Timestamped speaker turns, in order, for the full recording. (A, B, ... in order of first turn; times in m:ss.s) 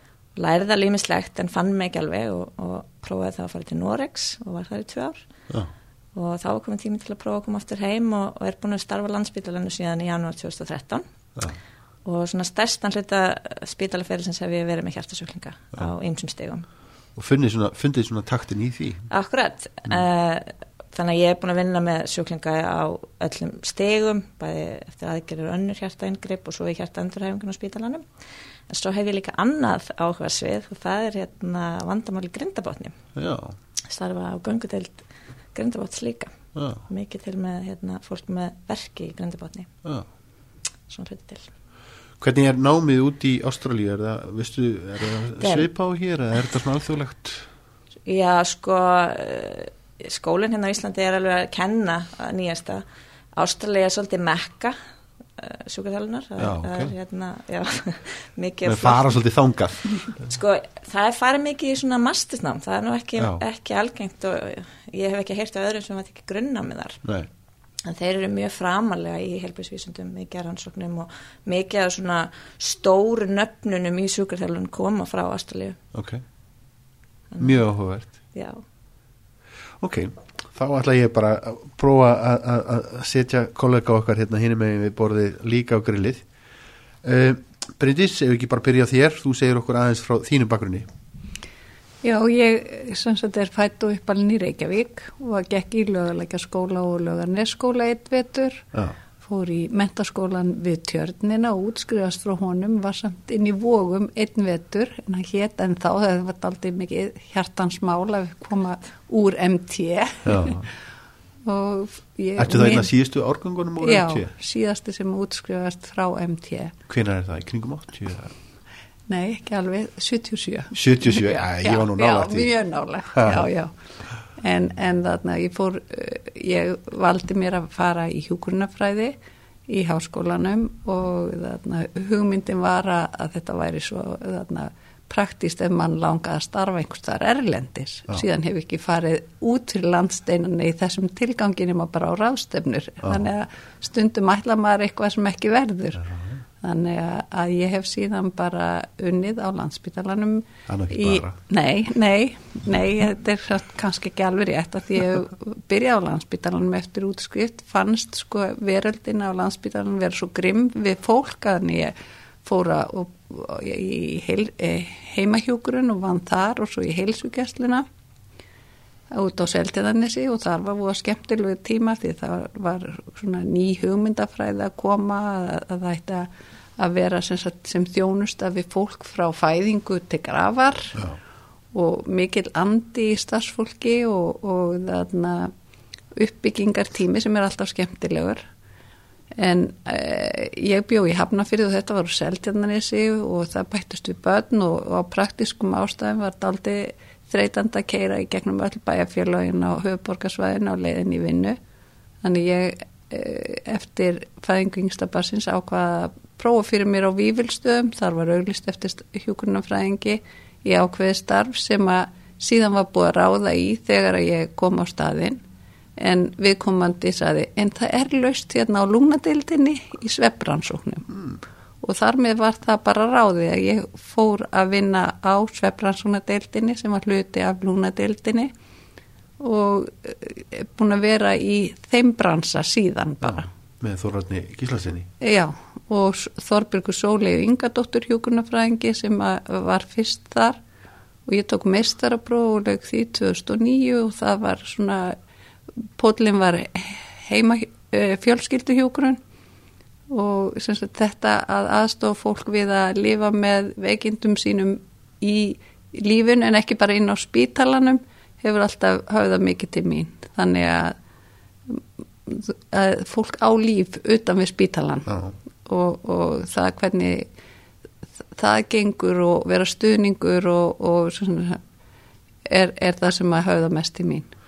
0:00.4-0:05.2 A
0:06.1-0:11.0 A
0:12.0-0:16.6 A
0:17.2-0:19.0 B
0:19.1-0:28.0 A
0:28.7-0:33.0 A
0:33.1-0:33.6 B
0:33.9-0:35.0 A
0:35.5-0:36.3 A
0:36.5-0:36.8 B
0:36.9-0:39.7 A
0:40.9-0:41.5 A
0:42.2-0:47.5 B
0:45.4-0:45.7 A
0:48.0-0:54.8 A
0:55.4-0:59.1 A
0:56.4-0:56.9 B
0:58.6-1:00.0 B
1:00.2-1:07.0 A
1:07.0-1:07.3 B
1:07.8-1:15.8 A
1:15.9-1:16.2 B
1:17.3-1:18.6 A
1:17.4-1:18.1 B
1:19.8-1:26.2 B
1:27.0-1:30.9 B
1:32.0-1:38.6 C
1:39.2-1:50.5 C
1:50.2-1:50.7 B
1:51.4-1:52.9 C
1:52.4-1:54.3 B
1:53.8-1:56.7 C
1:56.9-1:58.3 B
1:59.1-2:03.7 C
2:00.7-2:02.5 B
2:03.1-2:03.4 B
2:04.3-2:26.0 C
2:26.0-2:26.4 B
2:26.6-2:47.8 C
2:30.7-2:31.4 B
2:49.1-3:01.0 C
3:01.7-3:05.5 C
3:06.1-3:08.5 C
3:09.4-3:21.6 C
3:22.2-3:35.4 C
3:36.0-3:41.1 C
3:41.8-3:48.5 C
3:49.4-3:53.5 C
3:53.2-3:55.1 B
3:55.2-4:00.6 C
4:01.2-4:05.2 C
4:05.8-4:09.2 C
4:10.1-4:21.0 C
4:21.7-4:25.1 C
4:25.1-4:25.3 B
4:25.6-4:27.3 C
4:28.4-4:31.6 C
4:32.5-4:34.3 C